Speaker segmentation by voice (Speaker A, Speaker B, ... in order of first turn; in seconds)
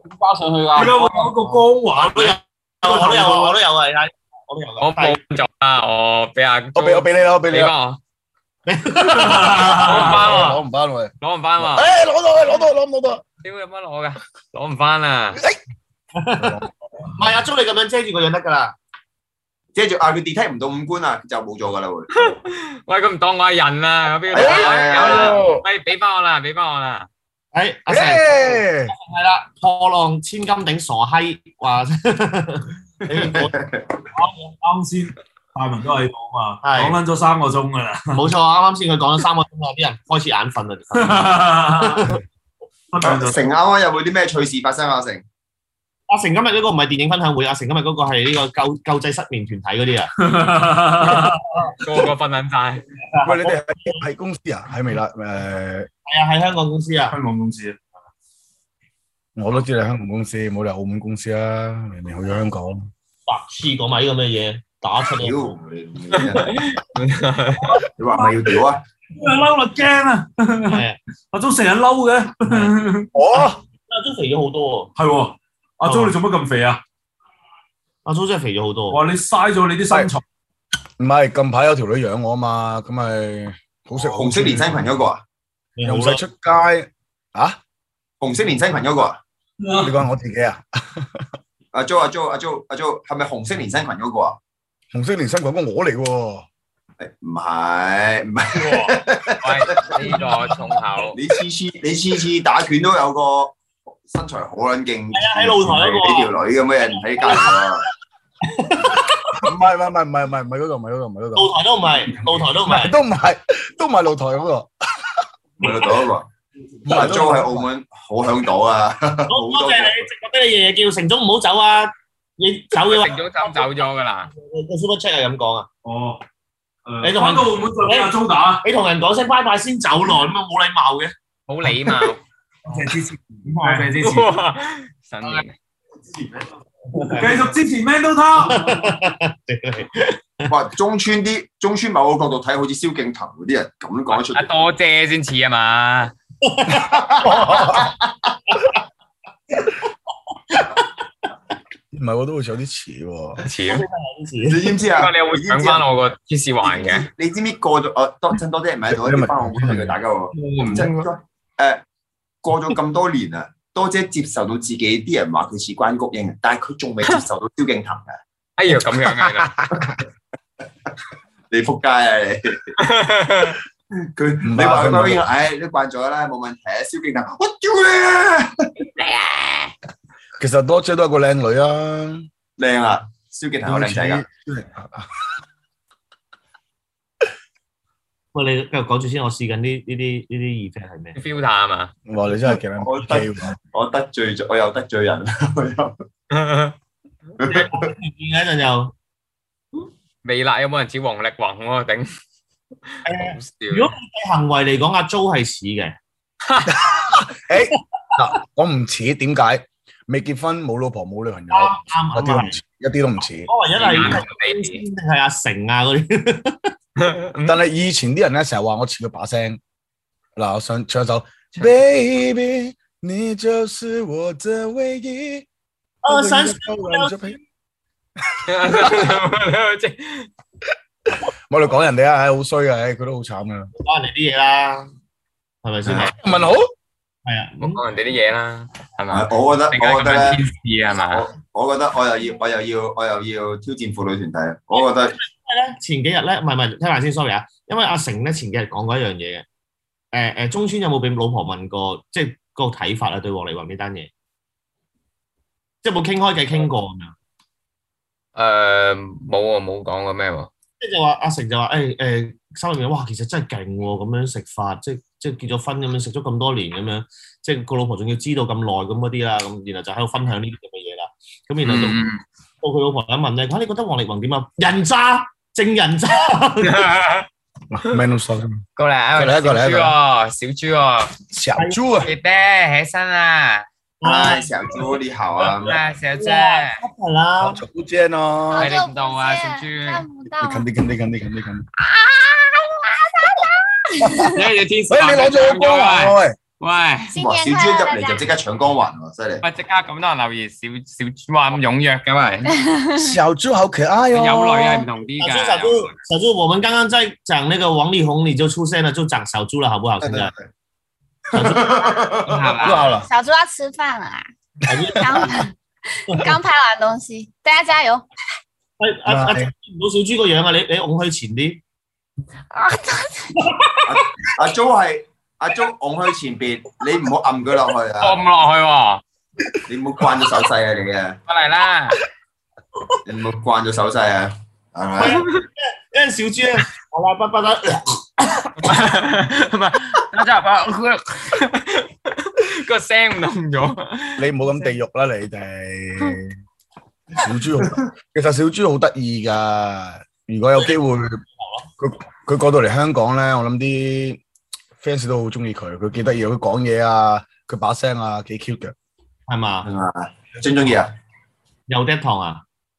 Speaker A: 0.2-5.2, 8.7-9.9, 16.1-16.6, 17.1-18.8, 27.5-33.5, 34.1-34.5, 36.6-37.0, 38.1-42.2, 46.1-50.1, 51.0-52.0, 53.0-54.0, 56.1-57.2, 63.3-65.6, 70.7-71.0, 73.3-74.9, 75.8-76.1, 78.0-79.0, 85.8-86.2, 105.1-106.3, 106.9-107.7, 108.4-109.5, 111.4-113.0, 119.3-125.7, 127.0-128.1, 128.6-131.1, 133.6-133.9, 136.9-137.5, 138.4-140.5, 146.4-148.8, 149.5-150.9, 153.6-154.7, 188.3-191.2, 197.4-198.9, 203.1-206.0, 211.5-212.6, 213.5-216.7, 226.0-227.4, 233.8-234.9, 235.6-236.2, 237.2-237.8, 244.7-249.4, 250.1-254.1, 255.8-257.1, 260.8-272.0, 272.6-276.9, 281.6-281.8, 284.0-284.9, 285.4-287.6, 305.2-310.3, 311.3-312.1, 314.6-315.4, 318.8-321.6, 323.4-323.7, 335.0-338.8, 351.4-351.7, 359.3-359.7, 361.7-362.4
Speaker B: 0.7-3.6, 9.0-10.3, 34.6-38.3, 41.0-42.2, 42.9-43.4, 50.2-51.4, 57.1-57.8, 69.2-73.1, 75.0-76.8, 78.9-80.2, 89.6-89.9, 125.8-126.2, 126.9-128.6, 132.7-134.3, 137.0-139.0
Speaker C: 4.8-8.0, 9.8-10.6, 11.2-12.0, 13.4-15.4, 22.1-27.1, 51.8-52.9, 66.1-67.7, 98.5-101.2, 122.7-124.3, 131.5-132.2, 134.0-135.5, 144.1-146.1, 153.4-153.8, 154.9-157.1, 160.4-161.1, 168.6-169.8, 172.8-173.6, 179.1-179.6, 191.2-191.9, 196.3-196.8, 200.2-202.1, 203.2-203.9, 206.5-206.8, 213.8-214.8, 217.0-217.6, 228.5-230.3, 237.6-241.2, 258.4-260.5, 271.6-272.2, 276.6-277.3, 278.8-281.1, 282.0-283.7, 285.6-286.8, 288.6-290.1, 294.2-297.1, 299.4-302.5, 304.1-305.9, 312.3-313.0, 328.0-329.0, 331.3-332.0, 335.0-335.4, 338.6-344.3
Speaker D: 6.8-7.7, 9.8-13.2, 16.4-17.1, 24.4-25.6, 27.9-28.9, 53.2-55.9, 59.4-62.9, 73.1-73.6, 81.0-84.8, 85.8-87.6, 89.8-91.2, 94.9-96.5, 109.4-111.5, 112.6-115.2, 116.9-117.7, 147.2-147.9, 151.9-153.4, 159.0-160.0, 174.4-175.2, 180.4-182.3, 183.7-185.1, 192.1-193.6, 206.7-213.5, 217.4-219.6, 220.4-225.5, 226.1-227.4, 228.2-229.1, 231.1-233.7, 235.9-236.7, 277.7-278.6, 279.2-279.9, 281.3-282.1, 287.4-288.7, 290.4-291.6, 294.9-296.4, 303.0-304.9, 312.6-313.1, 319.1-319.5, 344.2-346.4, 347.2-351.2, 351.8-354.2, 354.8-358.7
Speaker E: 19.7-22.4, 24.3-25.4, 33.1-33.9, 43.0-45.2, 65.2-66.5, 68.0-68.8, 84.0-85.2, 88.2-89.2, 91.7-94.4, 97.0-100.2, 101.1-107.8, 115.6-116.3, 116.9-120.1, 140.5-144.5, 154.5-155.8, 156.6-161.8, 162.4-168.2, 171.5-172.7, 174.0-178.7, 182.6-184.2, 192.8-196.0, 197.4-197.9, 239.1-240.4, 240.9-245.2, 284.0-285.8, 297.2-299.4, 310.0-310.3, 311.4-312.6, 323.9-328.2, 329.7-331.2, 333.1-335.2, 359.6-360.9
Speaker F: 288.5-290.7, 291.8-294.4, 297.1-298.3, 302.5-303.0, 313.0-314.3, 314.9-315.5, 316.1-318.1, 322.5-323.4